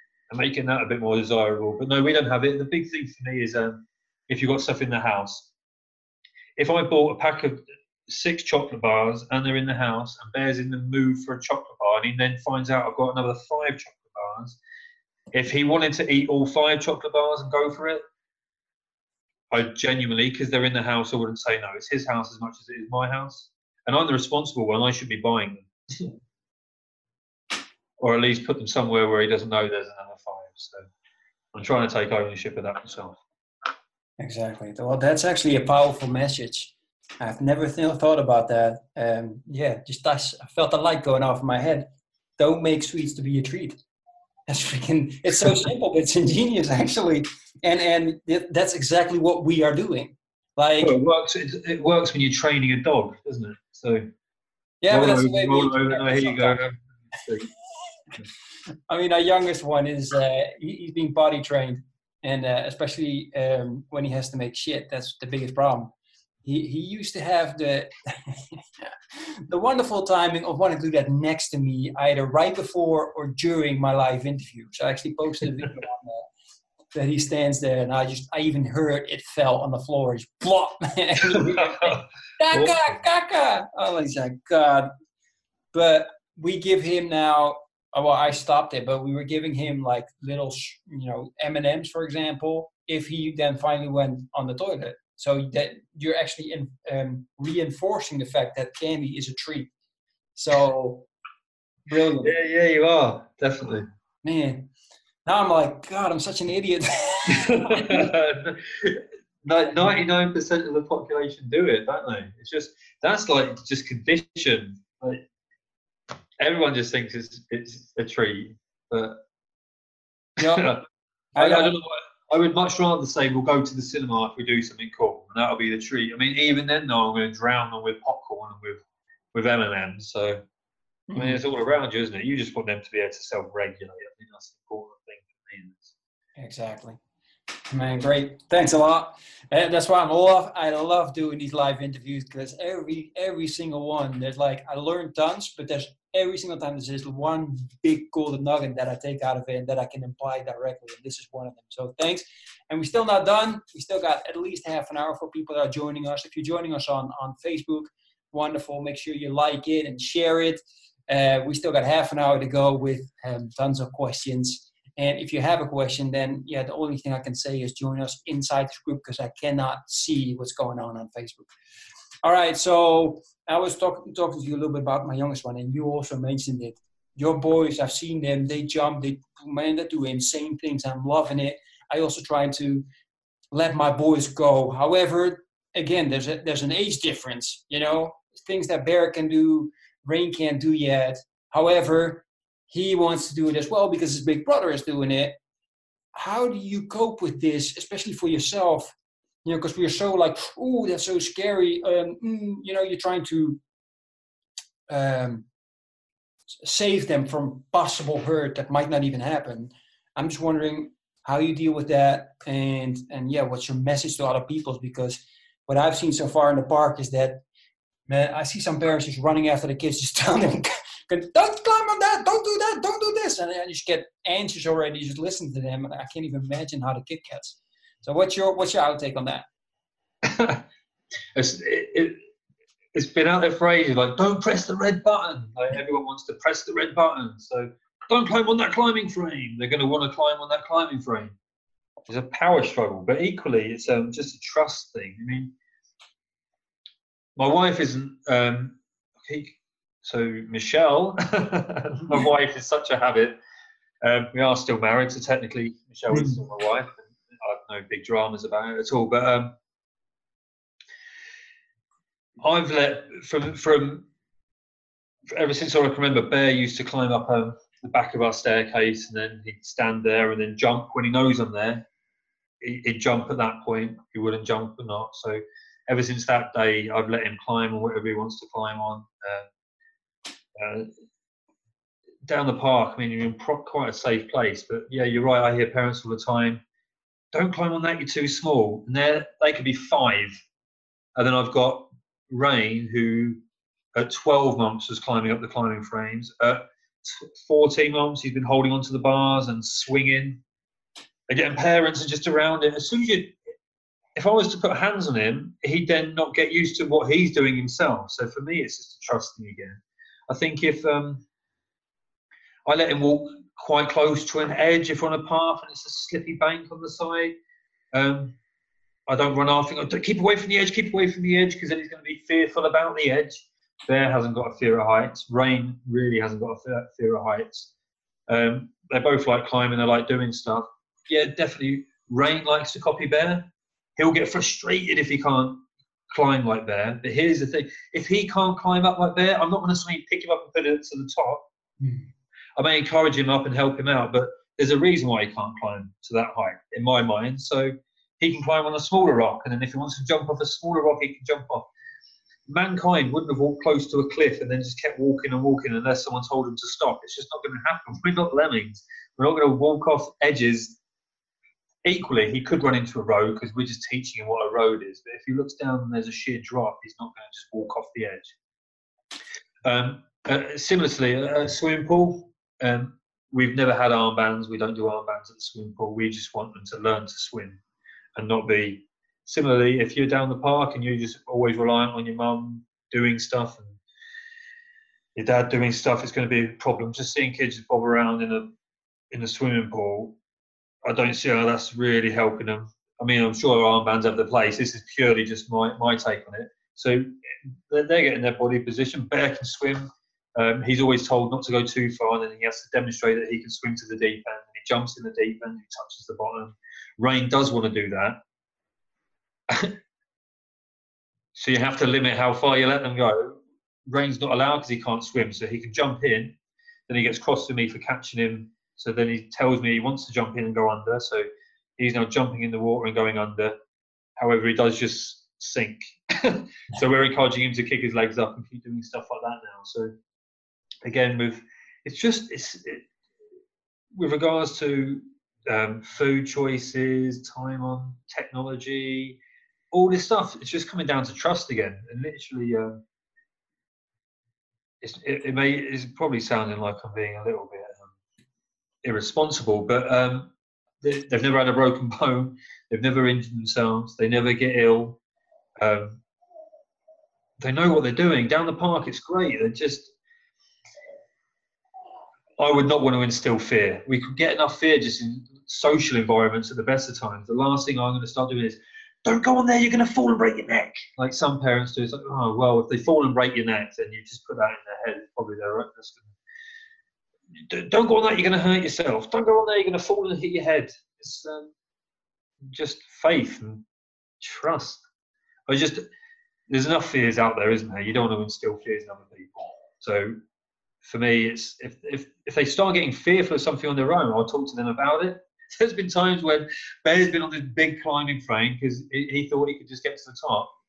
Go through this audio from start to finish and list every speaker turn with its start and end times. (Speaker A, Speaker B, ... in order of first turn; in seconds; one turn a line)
Speaker A: 0.3-5.5
Speaker A: 6.6-14.6
Speaker A: 15.3-18.0
Speaker A: 19.5-26.1
Speaker A: 28.0-30.8
Speaker A: 31.5-33.2
Speaker B: 34.2-41.9
Speaker B: 42.4-43.8
Speaker B: 44.5-50.9
Speaker A: 50.8-54.0
Speaker B: 54.8-56.6
Speaker A: 54.9-57.5
Speaker B: 58.9-65.9
Speaker B: 66.4-68.9
Speaker B: 69.5-76.2
Speaker B: 76.9-84.9
Speaker A: 81.3-82.8
Speaker B: 85.7-99.7
Speaker B: 100.3-101.1
Speaker B: 101.9-102.3
Speaker A: 102.2-103.8
Speaker B: 104.2-104.7
Speaker B: 105.2-108.1
Speaker A: 107.3-115.2
Speaker B: 109.7-110.0
Speaker A: 116.4-119.2
Speaker B: 120.4-120.7
Speaker A: 120.4-120.8
Speaker B: 121.3-121.7
Speaker A: 121.4-128.8
Speaker A: 129.3-130.4
Speaker B: 131.1-131.4
Speaker A: 131.2-135.9
Speaker B: 136.4-137.0
Speaker B: 137.7-171.5
Speaker B: 172.2-182.8
Speaker B: 183.5-195.4
Speaker B: 196.1-198.9
Speaker B: 199.4-203.6
Speaker B: 204.9-205.4
Speaker B: 206.6-217.4
Speaker B: 218.1-229.4
Speaker A: 230.2-230.6
Speaker A: 231.3-232.2
Speaker A: 232.9-241.3
Speaker A: 242.1-245.5
Speaker A: 247.4-253.3
Speaker A: 254.0-259.5
Speaker B: 256.1-256.4
Speaker A: 262.4-264.1
Speaker A: 265.3-271.8
Speaker A: 272.6-279.5
Speaker A: 280.5-280.9
Speaker A: 282.2-286.6
Speaker A: 287.3-290.4
Speaker A: 291.1-293.4
Speaker A: 293.9-300.4
Speaker A: 301.3-303.3
Speaker A: 304.1-311.2
Speaker A: 312.6-317.4
Speaker A: 317.9-318.4
Speaker A: 319.1-327.7
Speaker A: 328.3-341.4
Speaker B: 341.8-342.1
Speaker A: 342.6-351.7
Speaker A: 352.5-360.8
Speaker A: 361.8-368.3
Speaker A: 369.6-377.6
Speaker A: 378.1-383.8
Speaker A: 385.1-388.5
Speaker A: 389.1-390.1
Speaker A: 390.8-397.1
Speaker A: 397.7-408.2
Speaker A: 409.5-409.7
Speaker A: 411.3-416.3
Speaker A: 416.9-421.2
Speaker A: 421.8-423.6
Speaker A: 424.2-429.9
Speaker A: 430.8-432.9
Speaker A: 433.9-439.2
Speaker A: 439.7-442.8
Speaker A: 444.8-447.9
Speaker A: 448.8-450.3
Speaker A: 450.8-455.0
Speaker A: 455.6-456.0
Speaker A: 457.4-459.9
Speaker A: 462.4-476.1
Speaker A: 477.3-481.5
Speaker A: 482.5-483.6
Speaker A: 484.2-484.8
Speaker A: 485.5-485.8
Speaker A: 486.5-490.1
Speaker A: 490.8-500.5